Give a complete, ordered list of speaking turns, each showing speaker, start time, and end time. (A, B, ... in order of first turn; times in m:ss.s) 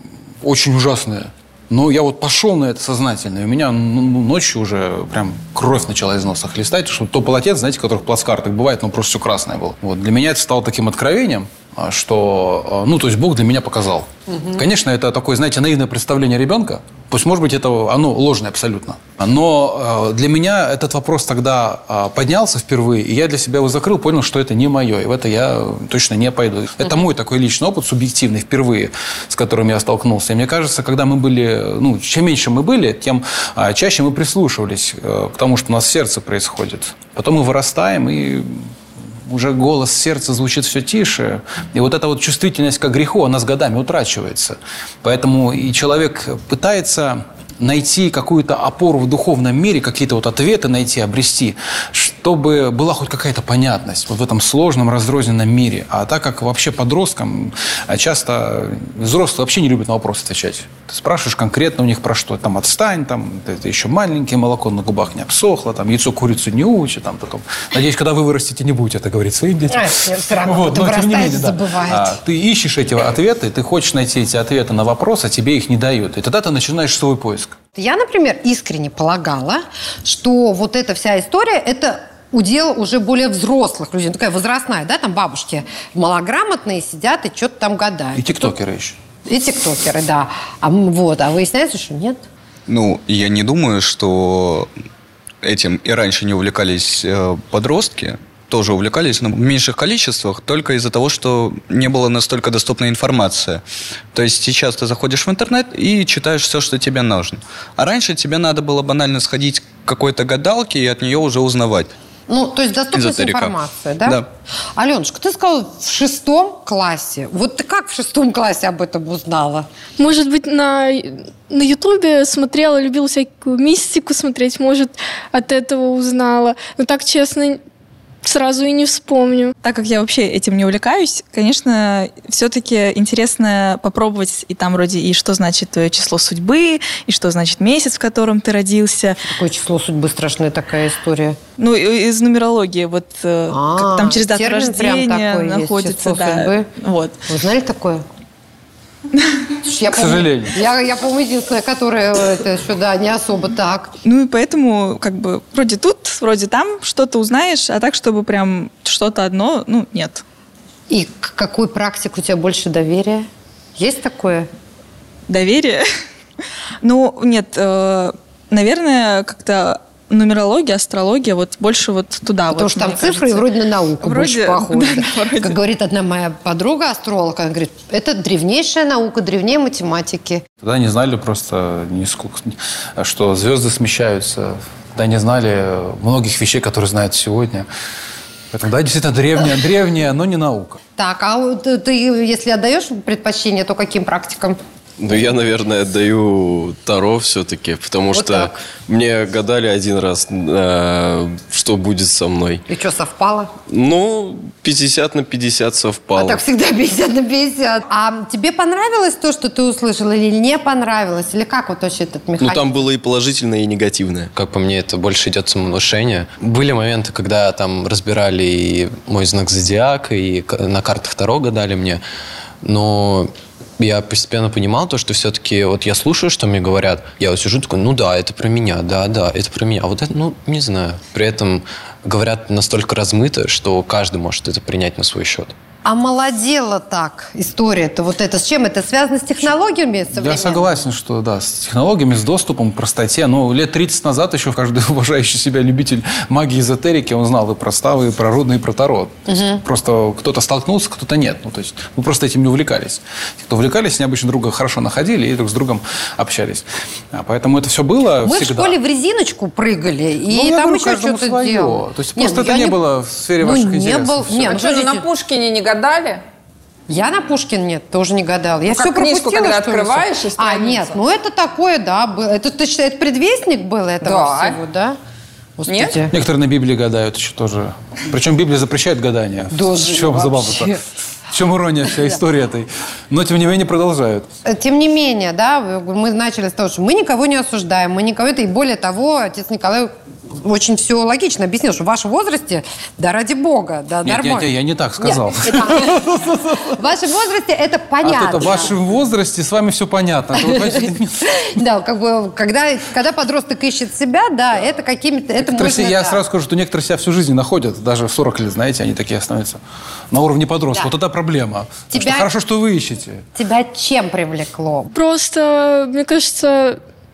0:00.4-0:38.7 A
0:39.3-1:17.6 A
1:09.7-1:12.2 B
1:17.8-1:28.5 B
1:28.1-1:29.0 A
1:29.2-1:32.2 B
1:32.7-1:34.7 C
1:35.4-1:43.6 C
1:44.1-1:51.9 C
1:52.3-1:54.2 B
1:52.9-1:54.2 C
1:54.7-1:59.7 B
2:00.0-2:07.6 D
2:08.2-2:09.5 D
2:09.6-2:19.2 E
2:19.3-2:21.4 B
2:21.6-2:27.2 E
2:23.5-2:26.7 B
2:27.3-2:28.0 B
2:29.6-2:34.0 B
2:29.9-2:30.5 A
2:34.0-2:40.2 E
2:40.9-2:44.5 B
2:45.3-2:45.9 E
2:46.8-2:53.5 E
2:52.5-3:00.4 B
2:54.0-2:55.6 E
3:00.6-3:07.7 A
3:08.5-3:10.8 A
3:11.0-3:14.6 B
3:15.0-3:22.6 F
3:18.1-3:18.5 B
3:22.7-3:23.5 B
3:23.7-3:26.4 F
3:26.1-3:32.8 B
3:32.4-3:34.3 F
3:34.3-3:42.0 G
3:42.6-3:55.5 G
3:55.8-4:00.8 B
4:00.1-4:18.8 A
4:09.3-4:09.6 B
4:18.2-4:22.8 B
4:20.3-4:24.5 A
4:23.4-4:25.0 B
4:24.4-4:26.2 H
4:26.9-4:35.0 B
4:28.7-4:31.0 H
4:34.0-4:34.6 H
4:35.6-4:36.1 B
4:35.7-4:36.0 H
4:36.1-4:44.3 A
4:39.5-4:40.8 B
4:44.4-4:58.8 B
4:54.0-4:56.7 A
4:58.0-5:01.5 A
5:00.4-5:06.2 B
5:05.4-5:09.6 A
5:10.1-5:13.2 A
5:11.9-5:12.3 B
5:13.4-5:14.9 B
5:14.9-5:16.8 D